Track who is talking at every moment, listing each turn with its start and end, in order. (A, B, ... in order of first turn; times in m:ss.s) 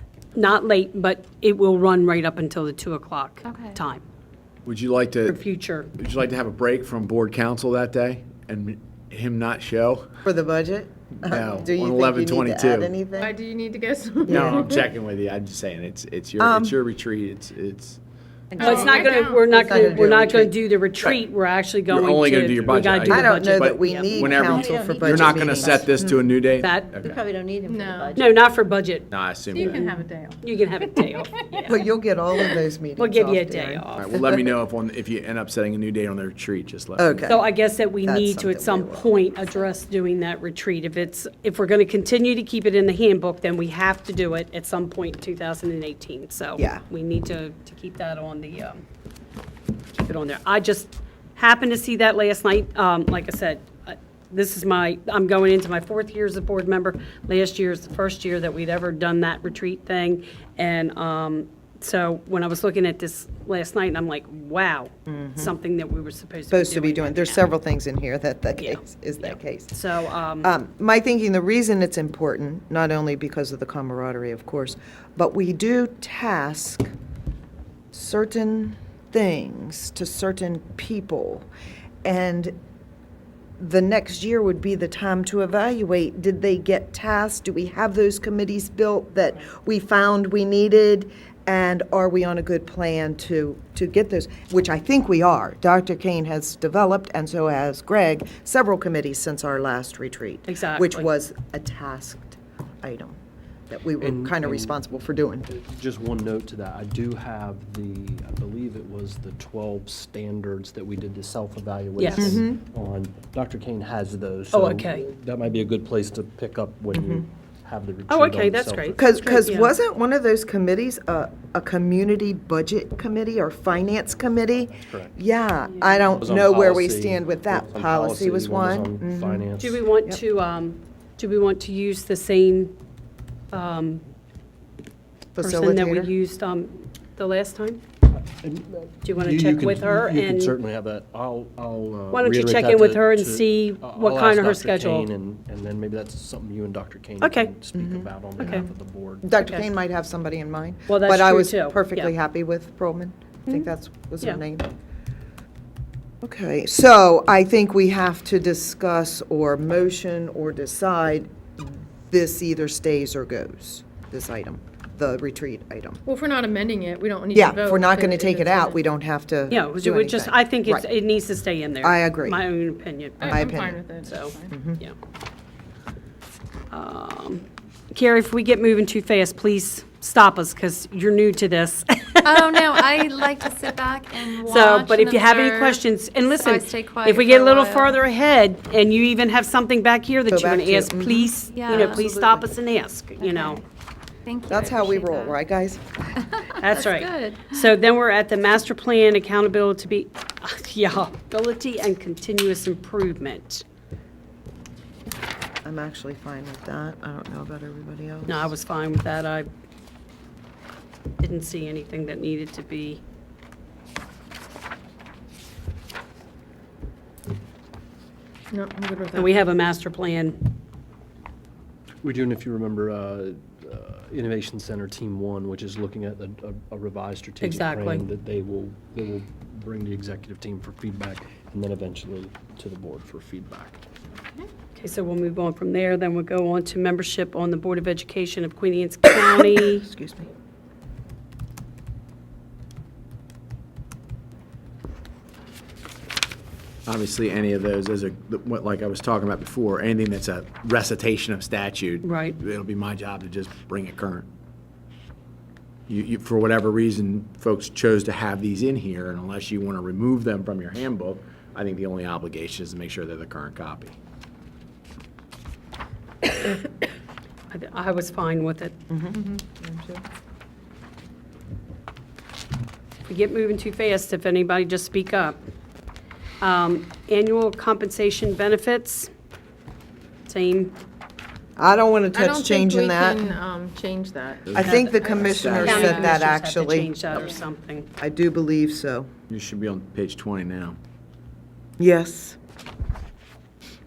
0:00.4-0:04.0 A
0:04.6-0:05.4 B
0:05.3-0:05.9 A
0:06.0-0:10.1 B
0:10.2-0:13.4 C
0:11.2-0:13.0 B
0:13.2-0:14.9 D
0:14.3-0:14.6 C
0:14.3-0:18.0 B
0:16.4-0:16.8 C
0:18.5-0:20.6 C
0:18.6-0:19.7 D
0:18.6-0:24.1 A
0:21.9-0:27.2 B
0:23.0-0:26.2 C
0:24.2-0:25.8 E
0:26.6-0:27.0 A
0:27.1-0:28.3 E
0:27.7-0:28.2 D
0:28.2-0:29.1 A
0:29.1-0:29.8 B
0:29.5-0:32.6 D
0:29.6-0:29.9 A
0:30.4-0:31.8 A
0:31.7-0:33.9 C
0:33.0-0:34.2 A
0:34.0-0:37.2 B
0:37.0-0:37.5 C
0:37.2-0:48.8 A
0:38.0-0:39.1 C
0:46.6-0:46.8 C
0:50.0-1:07.5 A
1:05.1-1:05.5 C
1:06.5-1:09.8 C
1:08.6-1:10.5 A
1:10.4-1:16.9 C
1:17.9-1:21.5 C
1:22.0-1:22.6 C
1:23.6-1:43.2 C
1:40.5-1:41.1 A
1:43.7-1:45.5 C
1:44.0-1:44.8 F
1:45.5-1:59.0 F
1:52.0-1:52.4 A
1:52.2-1:52.6 C
1:54.5-1:55.1 A
1:56.9-1:57.2 C
1:58.1-1:59.8 A
1:59.0-2:09.5 C
2:03.7-2:05.2 F
2:06.2-2:09.8 F
2:09.6-2:12.7 A
2:13.5-2:14.0 A
2:15.4-2:16.1 C
2:15.4-2:17.8 A
2:18.2-2:29.3 F
2:19.0-2:20.6 A
2:22.1-2:25.1 A
2:27.2-2:27.5 A
2:27.7-2:28.7 C
2:28.4-2:28.7 A
2:29.2-2:34.7 C
2:29.4-2:29.7 A
2:30.9-2:32.1 A
2:36.2-2:46.0 C
2:46.1-2:48.8 D
2:47.3-2:50.9 C
2:49.5-2:54.9 A
2:51.8-2:52.4 C
2:53.2-2:54.5 D
2:53.3-2:53.8 C
2:54.5-2:54.8 C
2:56.7-3:03.1 A
3:02.2-3:05.8 G
3:04.4-3:13.6 A
3:06.5-3:07.9 G
3:10.3-3:12.4 C
3:11.6-3:12.0 G
3:13.2-3:13.6 G
3:14.3-3:15.4 G
3:14.5-3:16.2 C
3:16.6-3:23.6 A
3:16.7-3:17.4 G
3:25.6-3:28.5 C
3:28.3-3:29.5 A
3:31.2-3:33.0 A
3:38.5-3:39.4 D
3:39.2-3:40.5 A
3:42.0-3:53.8 F
3:47.4-3:48.1 A
3:54.7-3:59.8 A
3:59.4-4:00.3 C
4:06.9-4:14.3 B
4:12.0-4:12.4 A
4:15.9-4:24.0 B
4:27.5-4:28.8 A
4:28.9-4:30.0 C
4:33.1-4:35.4 A
4:36.4-4:39.1 A
4:40.3-4:40.8 A
4:41.6-4:43.3 C
4:42.1-4:45.3 D
4:44.5-4:46.2 B
4:44.5-4:47.4 C
4:45.6-4:47.9 A
4:48.0-4:49.1 C
4:49.3-4:50.8 B
4:51.8-4:52.4 C